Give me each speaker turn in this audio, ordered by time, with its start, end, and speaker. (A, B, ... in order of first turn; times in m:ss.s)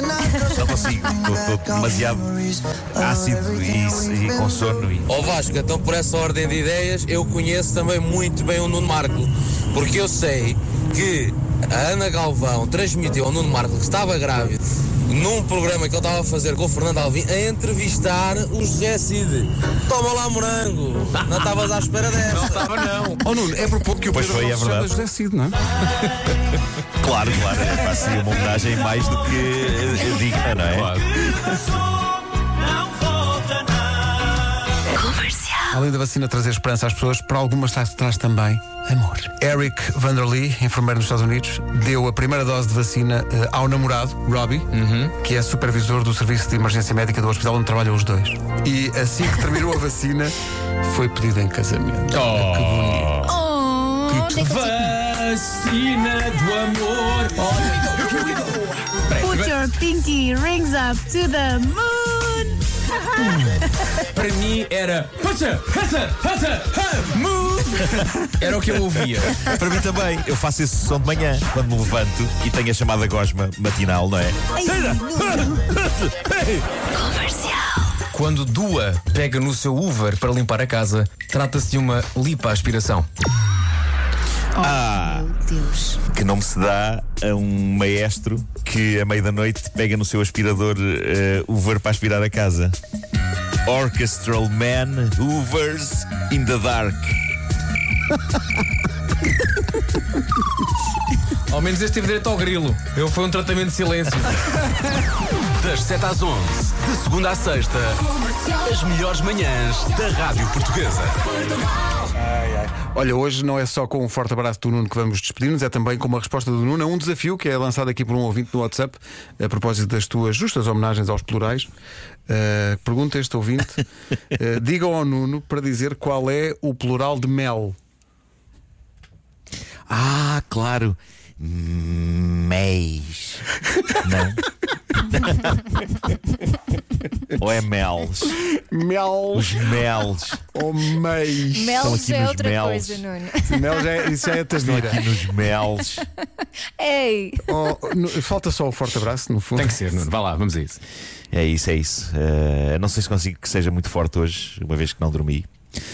0:00.4-0:05.1 A
0:05.1-0:22.7 B
0:22.3-0:23.2 C
0:23.2-0:25.6 D
0:24.1-0:24.9 A
0:27.0-0:30.9 A
0:30.7-0:31.2 C
0:35.7-0:53.2 D
0:44.7-0:45.1 C
0:52.1-0:53.4 C
0:53.2-0:54.8 E
0:54.1-0:54.5 D
0:54.4-0:59.7 C
0:59.2-1:02.5 F
1:04.1-1:09.4 C
1:09.4-1:16.6 A
1:18.1-1:23.1 C
1:24.6-1:26.0 E
1:24.6-1:25.3 A
1:26.1-1:32.8 A
1:33.6-1:37.2 A
1:41.5-1:44.6 C
1:45.6-1:48.0 G
1:48.6-1:51.2 G
1:52.2-2:01.7 D
2:02.3-2:07.8 D
2:09.9-2:13.5 A
2:14.0-2:14.4 A
2:15.0-2:15.7 A
2:17.3-2:18.4 A
2:18.4-2:19.8 D
2:19.3-2:20.4 A
2:20.5-2:22.0 D
2:21.5-2:23.8 E
2:21.8-2:23.1 A
2:23.4-2:25.0 D
2:24.6-2:26.1 A
2:26.8-2:27.8 E
2:27.5-2:30.0 D
2:29.6-2:30.8 C
2:31.3-2:35.5 A